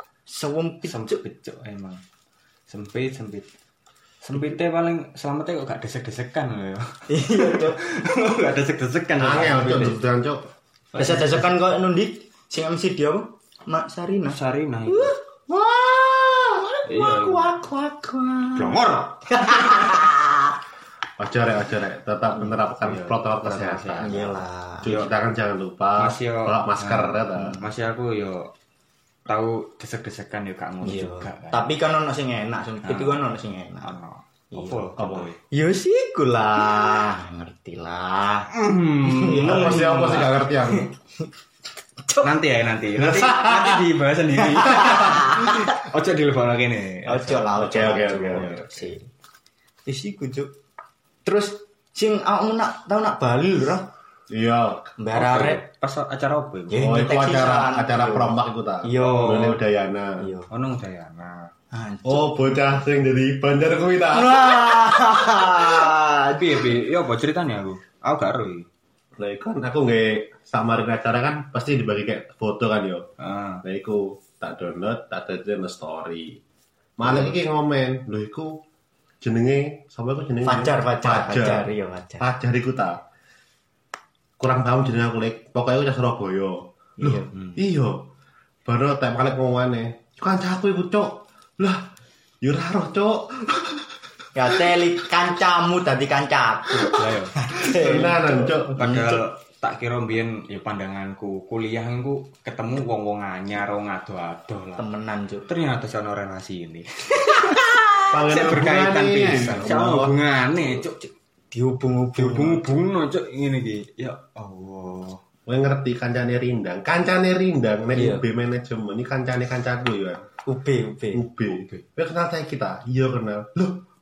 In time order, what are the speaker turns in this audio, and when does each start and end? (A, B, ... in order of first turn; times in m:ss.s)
0:00.3-0:01.2 A
0:00.8-0:02.0 B
0:02.7-0:03.5 B
0:04.2-0:10.0 B
0:07.1-0:07.8 A
0:09.2-0:10.4 C
0:10.9-0:11.5 B
0:11.0-0:20.5 A
0:14.3-0:15.2 B
0:16.8-0:17.6 B
0:18.6-0:19.3 B
0:21.2-0:27.6 C
0:22.8-0:24.3 B
0:24.0-0:25.0 A
0:24.9-0:25.1 B
0:26.0-0:28.5 B
0:27.4-0:27.7 A
0:29.3-0:31.7 B
0:30.8-0:34.0 A
0:32.8-0:33.2 B
0:33.8-0:35.4 B
0:34.5-0:38.5 A
0:35.0-0:35.3 C
0:38.5-0:40.9 B
0:39.1-0:40.2 A
0:39.2-0:40.9 C
0:42.0-0:42.3 A
0:42.2-0:48.9 B
0:43.0-0:43.9 C
0:44.5-0:45.6 A
0:47.0-0:49.1 A
0:47.5-0:48.5 C
0:49.9-0:50.5 A
0:51.2-0:53.9 A
0:54.3-0:54.9 C
0:55.0-0:55.6 A
0:55.1-0:56.9 B
0:56.7-0:59.6 A
0:56.8-1:00.2 C
0:59.0-0:59.6 B
1:00.2-1:00.5 A
1:00.5-1:01.5 B
1:01.7-1:02.6 A
1:02.0-1:05.6 C
1:04.1-1:06.7 A
1:06.4-1:08.7 B
1:09.2-1:13.1 C
1:13.2-1:13.6 B
1:13.6-1:16.4 C
1:17.0-1:18.6 C
1:17.0-1:17.3 B
1:19.2-1:23.0 C
1:20.4-1:22.3 A
1:24.4-1:28.1 C
1:27.0-1:27.3 A
1:27.3-1:27.6 B
1:28.6-1:31.8 C
1:32.4-1:33.8 C
1:34.4-1:39.2 A
1:36.8-1:38.7 C
1:36.9-1:37.3 B
1:38.8-1:44.8 B
1:44.8-1:45.5 A
1:45.4-1:51.1 B
1:48.1-1:49.7 C
1:49.4-1:50.1 A
1:51.5-1:52.7 A
1:52.2-1:55.2 B
1:55.5-2:00.2 C
1:57.9-1:58.2 A
2:00.5-2:01.2 A
2:01.1-2:03.8 C
2:01.5-2:01.8 B